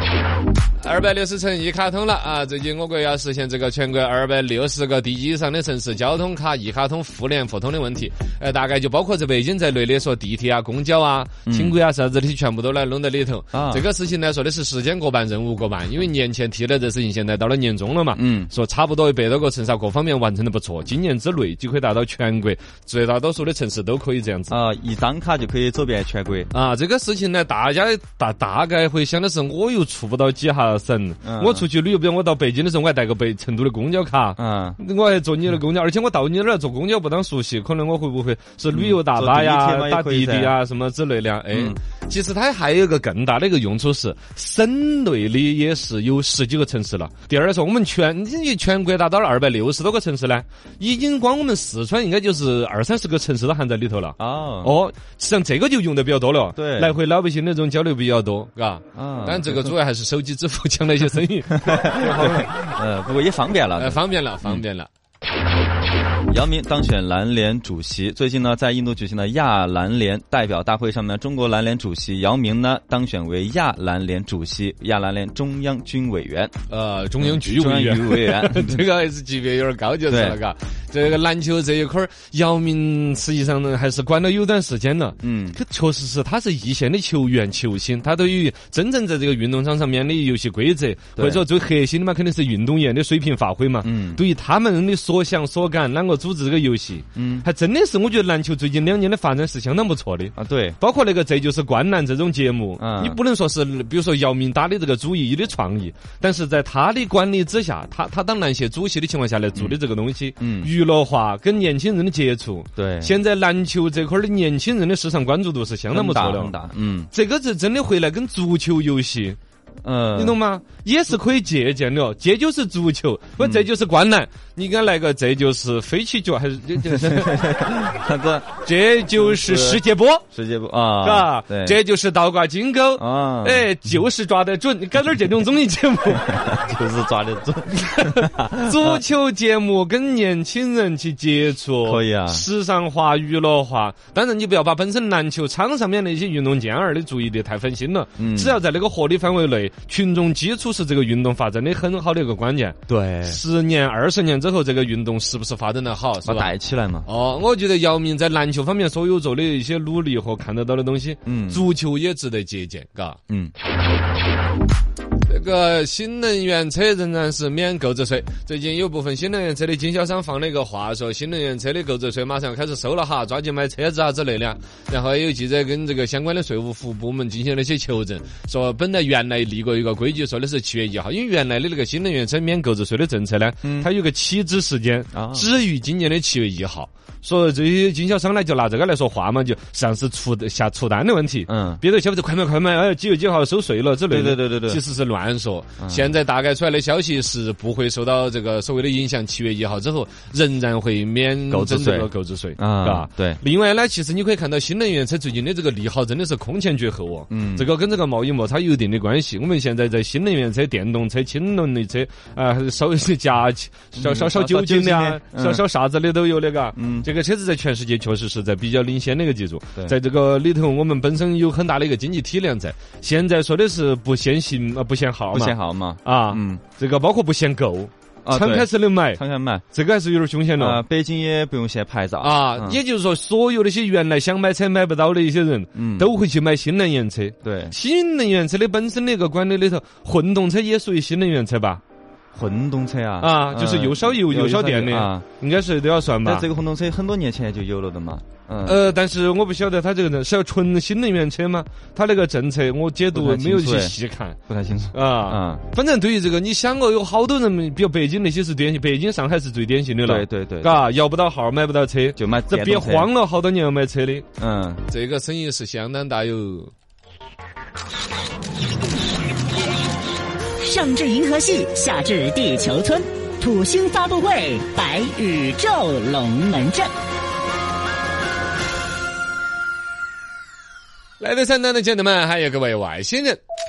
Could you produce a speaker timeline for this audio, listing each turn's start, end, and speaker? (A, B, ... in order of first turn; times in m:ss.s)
0:00.8-0:24.5 A
0:11.5-0:11.8 B
0:13.5-0:13.8 B
0:18.1-0:18.5 B
0:24.5-0:26.5 B
0:26.5-1:02.5 A
0:31.2-0:31.6 B
0:34.4-0:34.8 B
0:38.7-0:40.5 B
0:41.5-0:41.8 B
0:54.2-0:54.8 B
0:56.5-0:56.9 B
0:58.9-0:59.7 B
1:01.5-1:04.6 B
1:03.8-1:04.9 A
1:06.3-1:16.5 B
1:16.7-1:56.5 A
1:17.2-1:18.8 B
1:20.1-1:20.4 B
1:25.2-1:25.6 B
1:31.2-1:31.4 B
1:33.8-1:34.2 B
1:37.2-1:37.4 B
1:40.4-1:40.8 B
1:42.8-1:43.2 B
1:50.4-1:50.7 B
1:52.8-1:53.2 B
1:55.9-1:57.1 B
1:57.1-1:59.4 A
1:59.8-2:00.4 B
2:00.1-2:07.4 A
2:03.4-2:03.7 B
2:06.8-2:08.5 B
2:08.6-2:10.2 A
2:09.1-2:11.8 B
2:11.0-2:16.3 A
2:13.0-2:13.7 B
2:16.2-2:19.0 B
2:17.9-2:36.5 A
2:21.8-2:22.4 B
2:28.2-2:28.6 B
2:32.9-2:33.4 B
2:36.2-2:37.1 B
2:37.0-2:43.2 A
2:41.2-2:41.6 B
2:45.3-3:49.2 A
3:03.6-3:03.9 B
3:05.1-3:05.5 B
3:11.5-3:11.8 B
3:14.1-3:14.8 B
3:15.8-3:16.1 B
3:21.5-3:23.4 B
3:27.3-3:27.7 B
3:34.0-3:35.6 B
3:36.8-3:37.1 B
3:45.3-3:46.6 B
3:48.2-3:49.6 B
3:49.7-3:50.8 A
3:50.6-3:52.8 B
3:52.2-4:01.8 A
3:55.7-3:56.1 B
3:57.4-3:57.7 B
4:02.3-4:05.2 B
4:03.2-4:06.5 A
4:06.2-4:08.8 B
4:08.6-4:14.4 A
4:13.1-4:14.0 B
4:14.5-4:15.6 B
4:14.9-4:24.2 A
4:20.0-4:20.8 B
4:22.2-4:23.1 B
4:24.4-4:24.8 B
4:24.9-4:26.7 A
4:30.6-4:36.9 C
4:41.2-4:43.4 A